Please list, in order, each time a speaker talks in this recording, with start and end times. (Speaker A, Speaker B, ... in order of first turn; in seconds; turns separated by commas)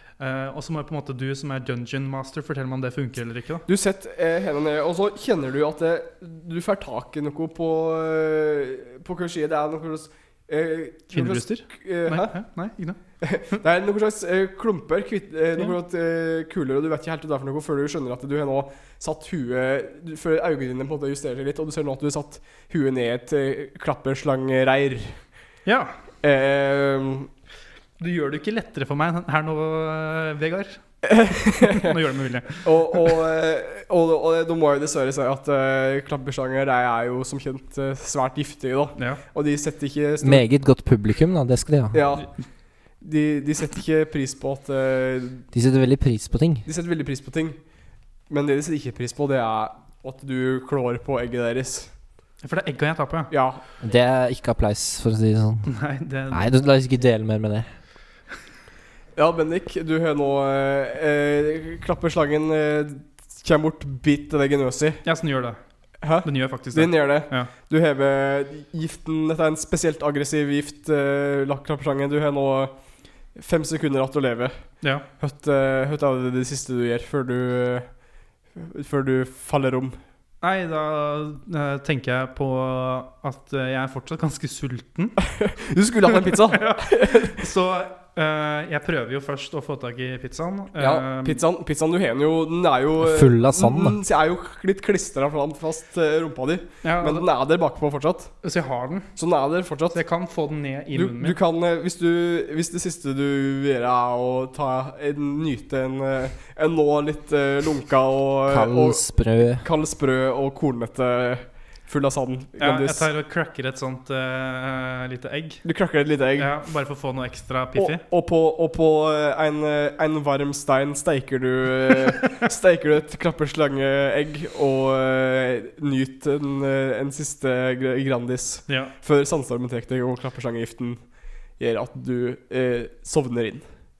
Speaker A: 0.2-3.6, Speaker B: 3.7-12.3, Speaker A: 11.1-13.0, Speaker B: 13.2-25.2, Speaker A: 25.6-25.9, Speaker B: 26.2-27.3, Speaker A: 28.0-32.7, Speaker B: 31.0-31.9, Speaker B: 32.6-40.4, Speaker A: 39.0-39.2, Speaker C: 40.2-42.0, Speaker B: 41.9-42.3, Speaker B: 43.0-45.4, Speaker C: 45.5-46.6, Speaker B: 46.6-47.6, Speaker B: 48.3-51.9, Speaker A: 52.4-53.3, Speaker B: 53.3-53.6, Speaker C: 53.8-55.7, Speaker A: 55.6-56.5, Speaker C: 56.3-57.7, Speaker B: 59.1-65.0, Speaker A: 65.0-65.6, Speaker B: 66.0-72.7, Speaker A: 66.2-67.5, Speaker B: 73.3-77.9, Speaker B: 78.5-80.0, Speaker A: 80.4-85.2, Speaker B: 85.3-87.4, Speaker A: 86.1-91.4, Speaker B: 90.8-98.3, Speaker C: 93.0-94.0, Speaker A: 96.8-97.3, Speaker A: 98.4-99.1, Speaker B: 99.2-100.0, Speaker A: 99.9-101.4, Speaker B: 100.9-113.0, Speaker C: 108.5-109.6, Speaker A: 112.6-115.6, Speaker B: 115.6-116.5, Speaker A: 116.3-118.0, Speaker B: 117.7-131.0, Speaker A: 128.7-128.9, Speaker B: 131.6-133.7